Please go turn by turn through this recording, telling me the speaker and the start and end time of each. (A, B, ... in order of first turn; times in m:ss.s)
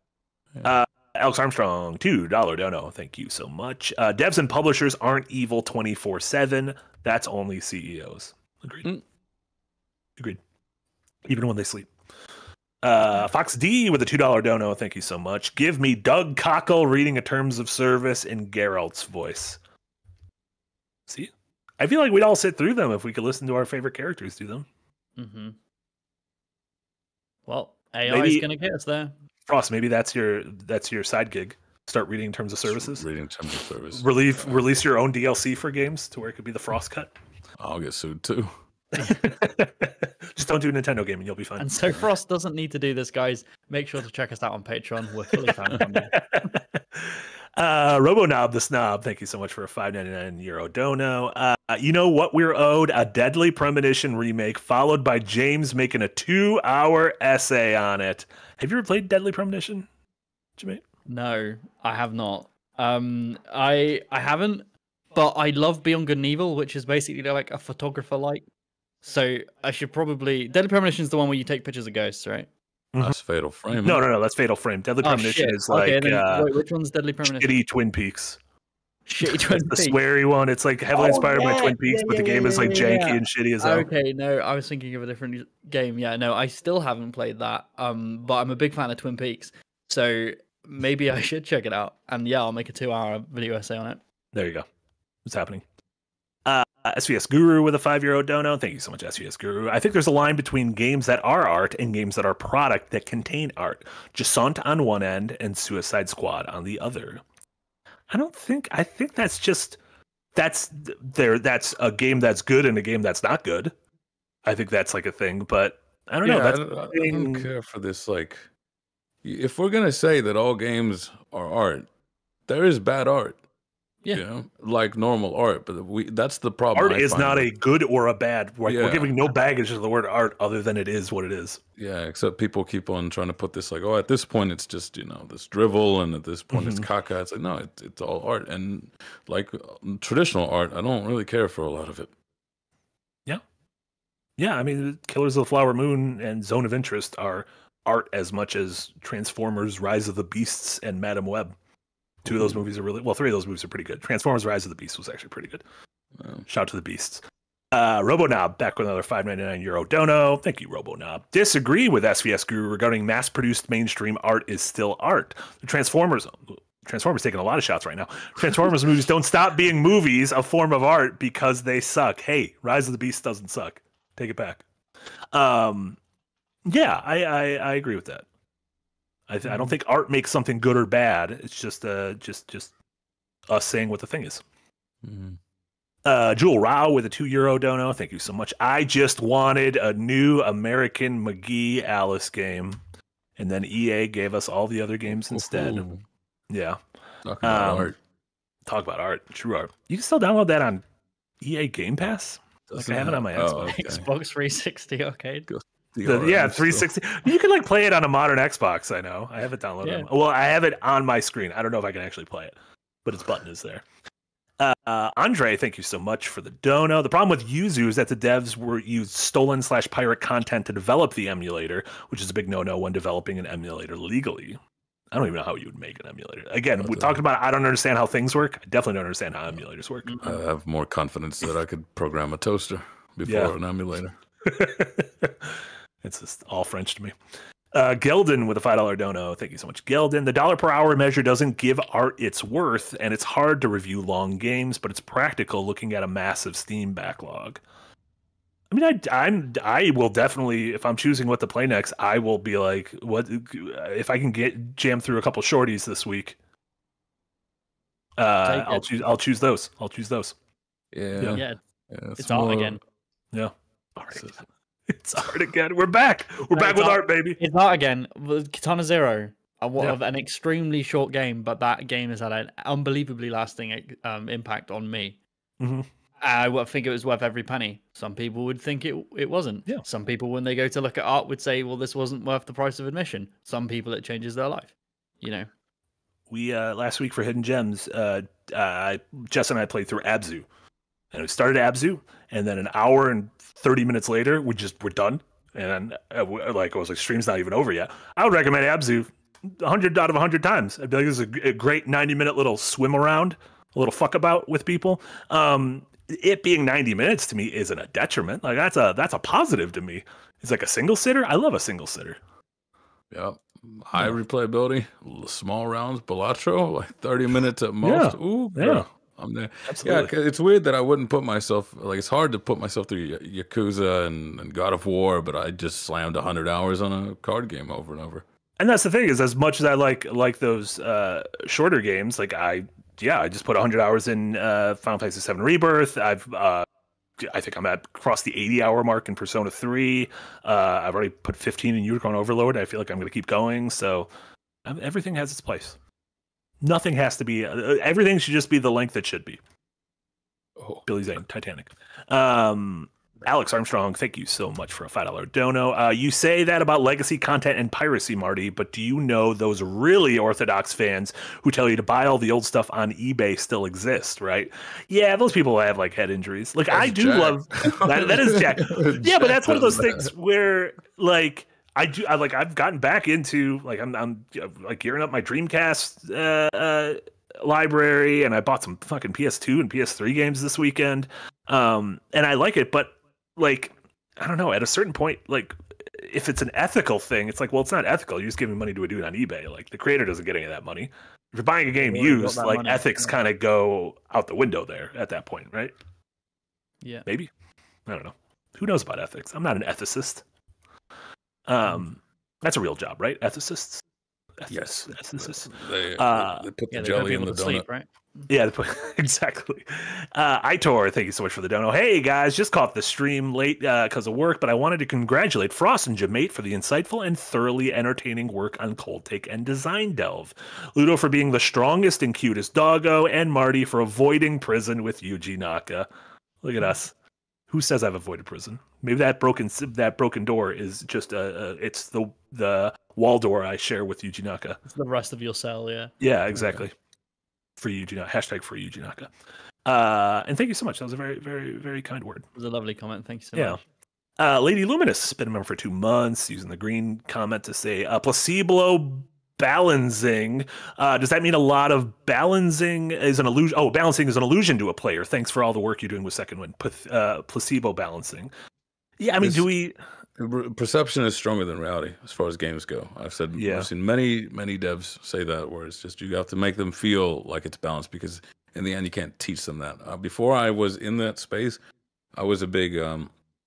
0:00.6-0:08.9 A
0:11.2-0:11.9 A
0:12.8-0:19.6 A
0:21.1-0:24.6 A
0:25.2-0:25.6 B
0:27.5-0:29.1 B
0:28.1-0:28.4 A
0:29.5-0:33.0 A
0:32.6-0:34.6 C
0:33.9-0:37.1 A
0:37.6-0:38.5 C
0:39.0-0:39.4 B
0:39.0-0:41.8 A
0:41.6-0:46.1 B
0:45.5-0:59.9 A
1:01.1-1:08.4 B
1:09.0-1:12.5 B
1:13.0-1:14.0 C
1:13.8-1:16.5 A
1:15.0-1:17.6 B
1:17.2-1:18.4 A
1:19.1-1:20.0 B
1:19.2-1:23.9 A
1:20.9-1:34.0 B
1:34.3-1:34.6 A
1:35.2-1:35.6 A
1:36.4-1:47.2 A
1:48.1-1:49.8 A
1:50.3-1:53.7 A
1:54.4-1:57.5 A
1:56.2-1:58.5 C
1:59.2-2:01.9 C
2:02.5-2:03.4 C
2:04.1-2:07.5 C
2:06.7-2:11.6 A
2:08.6-2:09.2 C
2:11.8-2:22.1 C
2:16.5-2:16.9 A
2:24.4-2:31.5 A
2:32.2-2:35.6 A
2:32.3-2:32.6 C
2:36.2-2:36.5 C
2:36.5-2:54.6 A
2:55.3-2:56.0 A
2:56.6-2:58.2 A
2:59.3-3:02.7 A
2:59.4-2:59.7 B
3:03.5-3:04.4 A
3:05.0-3:05.4 C
3:06.0-3:12.8 A
3:13.4-3:15.8 A
3:15.3-3:16.0 C
3:16.5-3:16.8 A
3:17.2-3:18.0 C
3:17.4-3:17.9 A
3:18.6-3:20.8 A
3:21.4-3:23.7 A
3:22.7-3:24.1 C
3:23.6-3:25.5 B
3:25.5-3:26.9 C
3:26.0-3:33.8 A
3:29.8-3:30.1 B
3:34.6-3:44.6 A
3:45.1-3:50.2 A
3:46.8-3:47.2 C
3:50.0-3:50.4 B
3:50.2-3:54.2 C
3:53.2-3:53.5 A
3:54.4-3:57.1 A
3:57.7-4:07.6 A
4:08.7-4:16.4 A
4:18.2-4:20.4 A
4:18.4-4:19.0 B
4:20.9-4:22.8 C
4:21.3-4:21.6 B
4:22.2-4:22.8 B
4:23.3-4:27.4 A
4:26.5-4:35.2 B
4:35.6-4:35.9 A
4:36.2-4:45.5 B
4:46.3-4:50.5 A
4:51.1-5:12.2 A
5:13.1-5:28.2 C
5:17.8-5:18.8 A
5:19.7-5:20.1 A
5:28.6-5:36.6 A
5:37.2-5:44.1 A
5:44.6-5:45.8 A
5:46.6-5:49.4 A
5:50.6-5:50.8 C
5:50.8-6:35.7 A
6:06.7-6:10.1 C
6:31.8-6:33.2 B
6:36.8-6:37.1 B
6:37.9-6:40.2 A
6:41.5-6:43.8 A
6:44.4-6:46.5 A
6:44.5-6:47.6 C
6:46.7-6:48.3 B
6:48.3-7:05.9 A
7:06.4-7:06.9 A
7:07.5-7:14.6 A
7:14.7-7:16.6 B
7:16.0-7:16.7 A
7:17.6-7:19.1 A
7:19.6-7:22.2 A
7:22.3-7:23.6 B
7:24.2-7:38.3 A
7:39.0-7:39.7 A
7:39.2-7:39.5 C
7:40.2-7:51.6 C
7:43.3-7:43.7 A
7:52.1-7:53.1 C